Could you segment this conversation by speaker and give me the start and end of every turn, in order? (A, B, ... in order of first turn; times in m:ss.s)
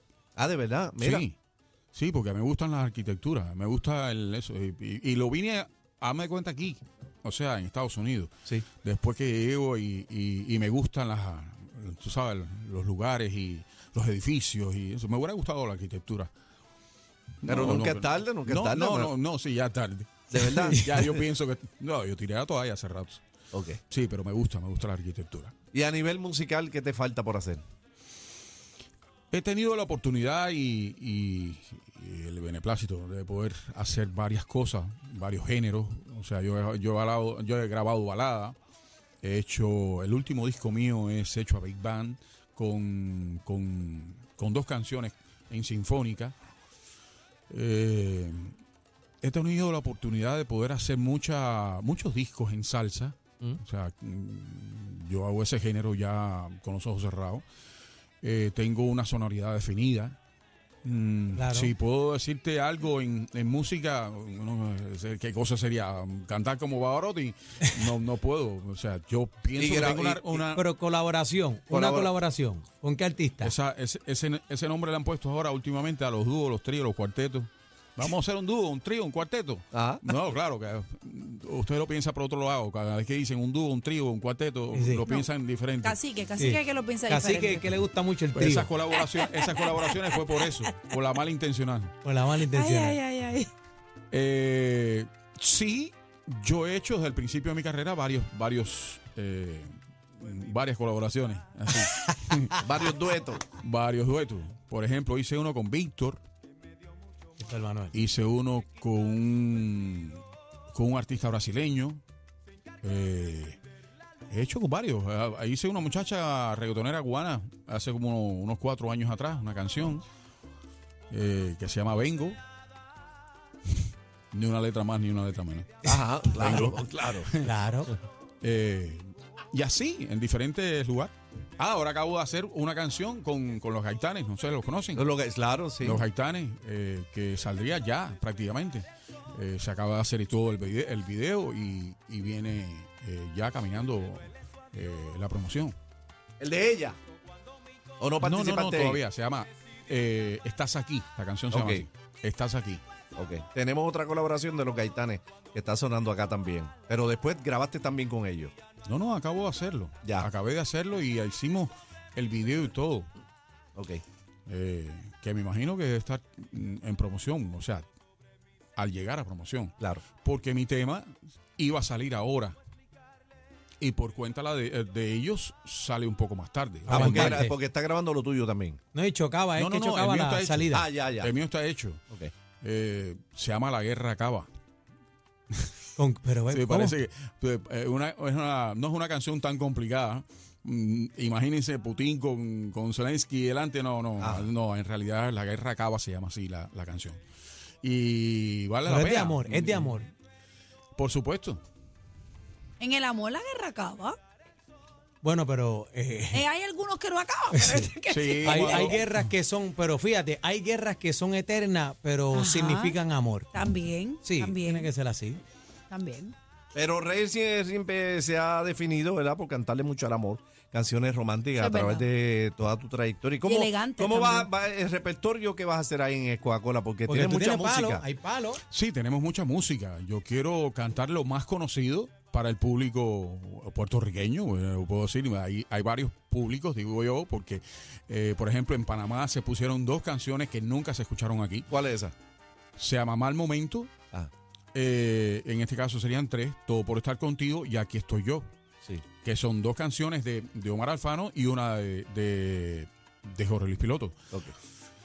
0:00.4-0:01.3 A
0:01.0-0:01.3 B
0:01.9-0:16.3 B
0:17.4-0:23.2 B
0:17.4-0:19.2 A
0:20.3-0:21.3 A
0:23.5-0:23.8 A
0:23.9-0:25.5 B
0:25.7-0:27.6 A
0:29.3-0:38.6 B
0:39.2-0:46.4 B
0:47.5-0:48.6 B
0:49.2-0:57.4 B
0:58.2-1:00.2 B
1:00.8-1:10.6 B
1:01.3-1:01.7 C
1:09.6-1:10.6 A
1:10.5-1:13.5 C
1:11.7-1:12.1 A
1:13.4-1:26.0 B
1:19.7-1:20.1 A
1:24.7-1:25.1 C
1:25.0-1:25.3 D
1:25.8-1:27.6 D
1:26.4-1:28.7 C
1:28.4-1:31.9 B
1:29.2-1:30.6 D
1:32.0-1:33.0 C
1:32.5-1:33.5 D
1:34.1-1:42.6 B
1:42.6-1:43.6 A
1:43.6-1:46.2 B
1:47.4-1:48.0 C
1:47.9-1:52.0 B
1:52.8-1:53.6 B
1:54.3-2:00.0 B
2:01.1-2:02.4 B
2:04.3-2:05.9 B
2:05.8-2:07.3 A
2:05.9-2:06.6 C
2:06.4-2:07.5 B
2:07.4-2:07.9 C
2:08.4-2:15.0 B
2:15.0-2:16.1 A
2:15.8-2:25.8 B
2:26.4-2:27.0 A
2:28.0-2:29.0 A
2:28.2-2:32.8 B
2:31.5-2:31.9 A
2:33.2-2:38.5 A
2:38.9-2:43.1 B
2:40.0-2:40.3 A
2:43.8-2:44.0 A
2:44.5-2:47.9 B
2:48.8-2:52.6 B
2:49.8-2:50.0 A
2:53.8-2:57.4 B
2:56.9-2:58.8 A
2:56.9-2:57.6 C
2:58.9-3:00.9 C
2:59.6-3:02.0 B
3:00.7-3:01.3 A
3:02.6-3:04.5 B
3:06.0-3:07.0 C
3:06.5-3:17.2 B
3:14.2-3:14.5 A
3:17.8-3:20.0 B
3:18.8-3:20.1 C
3:21.0-3:21.6 B
3:22.8-3:24.2 D
3:25.2-3:26.5 C
3:26.3-3:28.9 D
3:27.5-3:27.9 C
3:28.0-3:29.0 B
3:28.4-3:33.5 C
3:32.3-3:33.0 D
3:33.5-3:34.9 D
3:34.2-3:35.4 C
3:35.9-3:36.3 D
3:36.7-3:48.0 A
3:41.6-3:42.1 D
3:43.4-3:44.5 D
3:47.1-3:48.6 C
3:48.7-4:01.7 B
4:01.7-4:02.1 A
4:02.8-4:03.9 B
4:04.7-4:08.5 B
4:09.2-4:14.2 B